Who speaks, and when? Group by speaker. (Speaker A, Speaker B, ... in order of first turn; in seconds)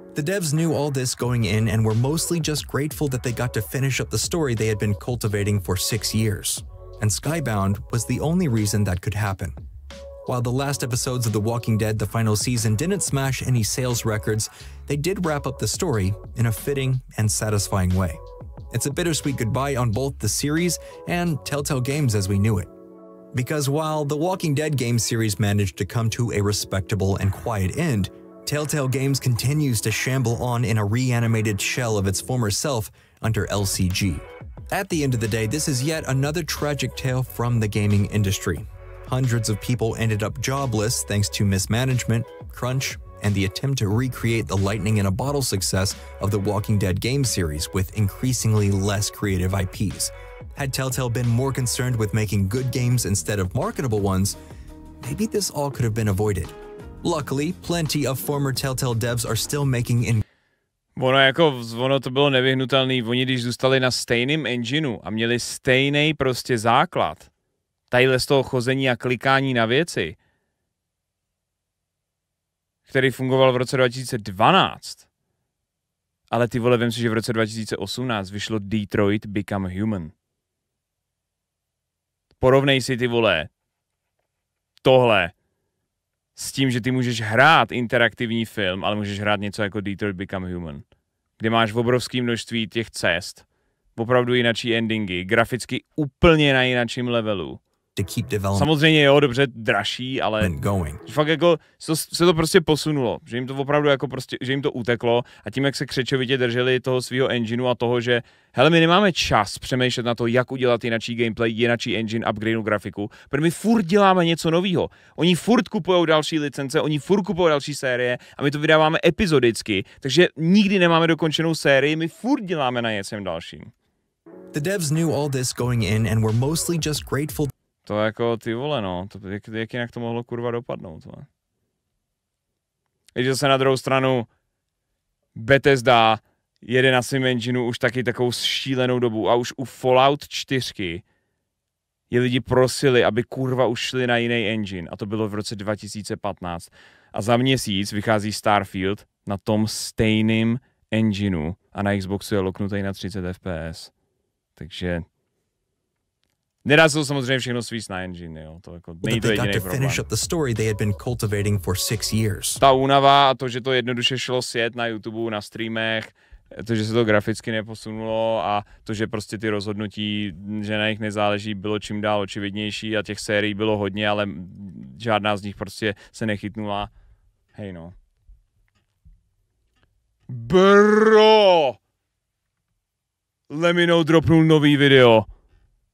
Speaker A: 0.1-9.6, 10.2-22.7, 23.3-54.4, 55.0-60.2, 98.0-98.7, 100.4-101.0, 124.5-127.5, 159.0-162.6
Speaker B: 61.0-67.3, 67.9-70.2, 72.9-75.0, 76.3-80.1, 82.4-83.5, 84.8-85.3, 86.3-90.8, 91.4-93.4, 94.0-97.6, 98.5-123.7, 127.8-131.3, 133.1-134.3, 135.3-141.0, 142.1-153.9, 154.6-155.1, 156.6-160.0, 162.6-176.9, 177.5-177.9, 180.3-181.8, 183.5-185.3